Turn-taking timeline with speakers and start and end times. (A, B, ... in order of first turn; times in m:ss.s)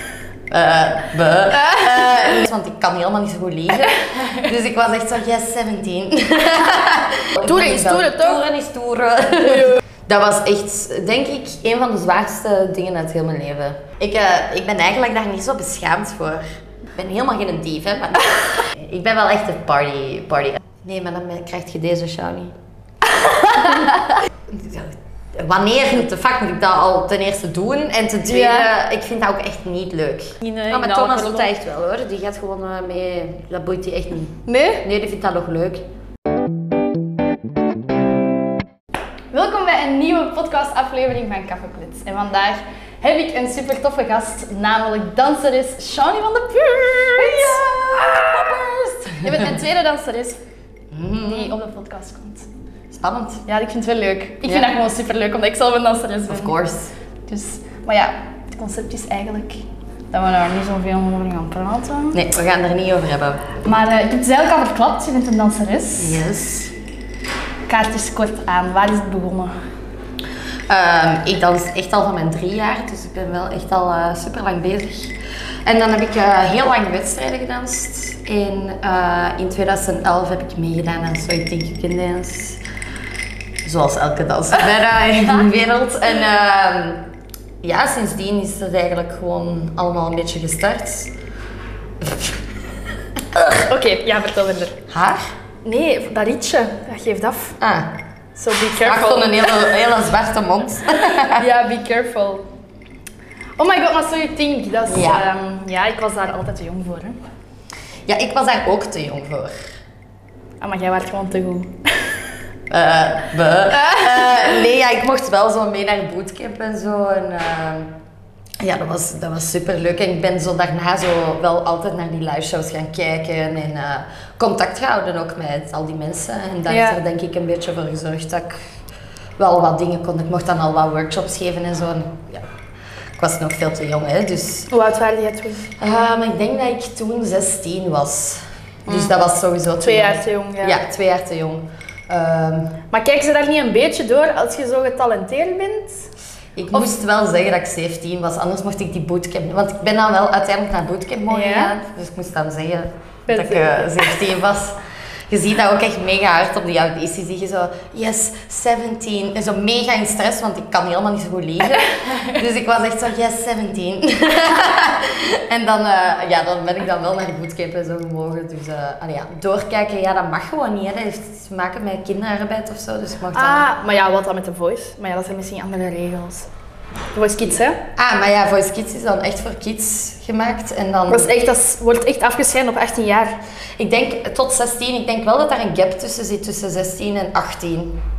0:00.5-0:16.4 A
0:07.4-0:08.4 B
0:17.0-0:22.5 A
0:23.0-0:24.2 B
0:24.5-0:35.8 A
0:28.3-0:28.7 B
0:30.4-0:31.5 B
0:34.4-0:34.8 B
0:39.3-0:48.6 B
0:47.1-0:49.5 A
0:49.2-0:50.4 B
0:50.9-0:51.6 A
0:51.2-0:52.5 B
0:52.9-0:53.4 A
0:53.5-0:56.5 B
0:54.4-0:54.7 A
0:56.3-0:56.9 A
0:57.3-1:02.2 B
1:02.1-1:03.6 A
1:03.6-1:06.2 B
1:06.0-1:06.7 A
1:07.7-1:09.6 B
1:10.7-1:22.6 A
1:23.6-1:27.0 A
1:27.6-1:31.1 A
1:33.5-1:34.8 B
1:34.9-1:35.2 A
1:35.6-1:37.6 B
1:37.6-1:37.9 A
1:38.4-1:39.6 B
1:38.8-1:41.4 A
1:41.0-1:42.5 B
1:43.6-1:47.2 B
1:44.9-1:45.2 A
1:48.1-1:49.5 A
1:50.6-1:52.2 B
1:52.7-1:57.9 A
1:53.7-1:54.6 B
1:58.6-2:08.6 A
2:06.7-2:07.0 B
2:09.4-2:12.5 A
2:13.2-2:14.7 A
2:14.7-2:15.7 B
2:15.8-2:22.8 A
2:18.9-2:19.1 B
2:19.8-2:20.8 B
2:22.9-2:26.1 B
2:26.6-2:34.8 A
2:31.3-2:31.7 B
2:33.3-2:34.1 B
2:35.3-2:53.7 A
2:53.3-2:56.5 B
2:57.1-2:57.8 B
2:58.0-3:01.3 A
3:01.1-3:03.4 B
3:03.8-3:08.0 A